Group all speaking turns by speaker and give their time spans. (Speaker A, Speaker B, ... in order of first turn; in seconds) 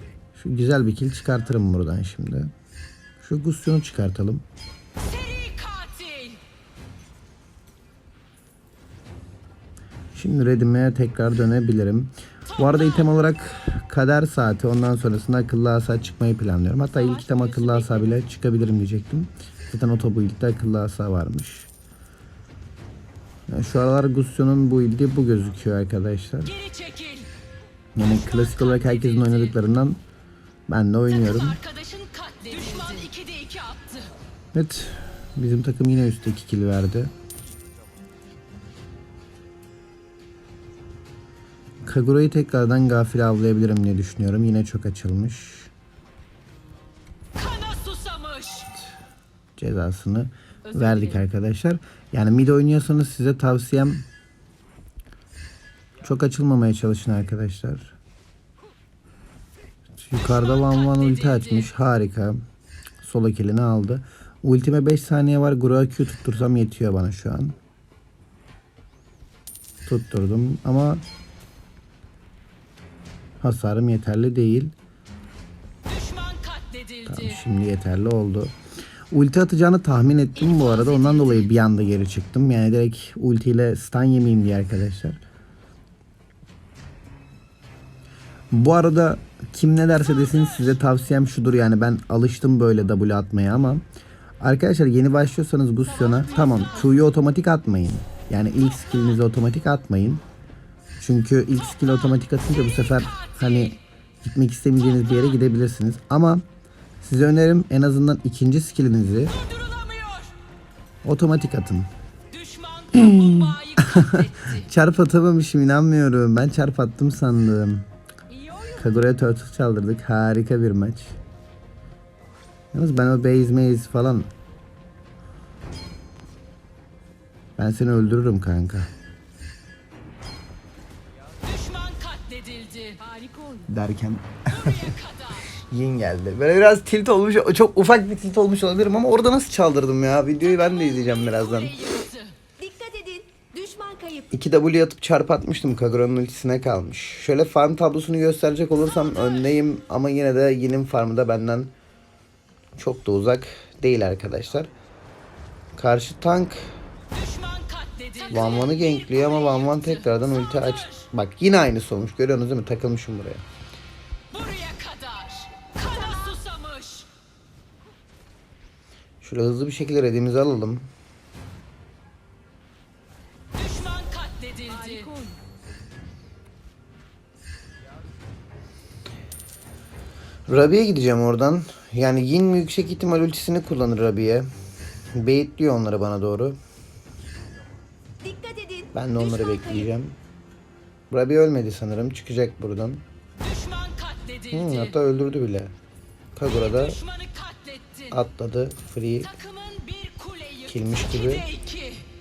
Speaker A: 0.3-2.5, 3.2-4.4, 10.1-21.7, 23.5-26.5, 27.9-30.0, 30.7-31.6, 34.5-37.1, 41.8-45.7, 49.6-54.1, 56.0-58.0, 60.0-62.4, 63.0-67.5, 69.8-71.0, 73.4-74.7, 77.0-78.5, 79.1-85.2, 88.5-93.8, 94.4-100.2, 101.0-106.4, 107.0-109.4, 111.0-111.9, 112.9-117.9, 118.8-121.2, 122.7-124.3, 127.6-128.9, 133.7-134.9, 135.5-141.9, 144.3-151.7, 152.8-154.7, 155.7-156.8, 158.3-163.4, 169.2-170.9, 180.5-184.5, 185.1-186.6, 188.9-190.2, 191.1-193.0, 194.5-195.7, 196.3-197.0, 198.1-199.3, 200.7-201.5
Speaker B: 5.0-6.4, 16.9-18.2, 26.4-27.3, 28.8-29.5, 31.3-34.1, 47.3-48.7, 50.7-51.2, 75.8-77.4, 80.4-81.5, 95.8-97.1, 103.3-103.7, 109.3-110.3, 112.3-114.7, 118.3-119.0, 131.2-133.7, 134.5-135.5, 140.4-142.4, 157.1-160.0, 160.6-161.0, 164.3-167.1, 173.5-175.4, 193.4-194.9, 196.5-198.2, 199.3-202.1
Speaker C: 142.6-144.3, 165.8-166.4, 174.7-175.2, 188.2-189.9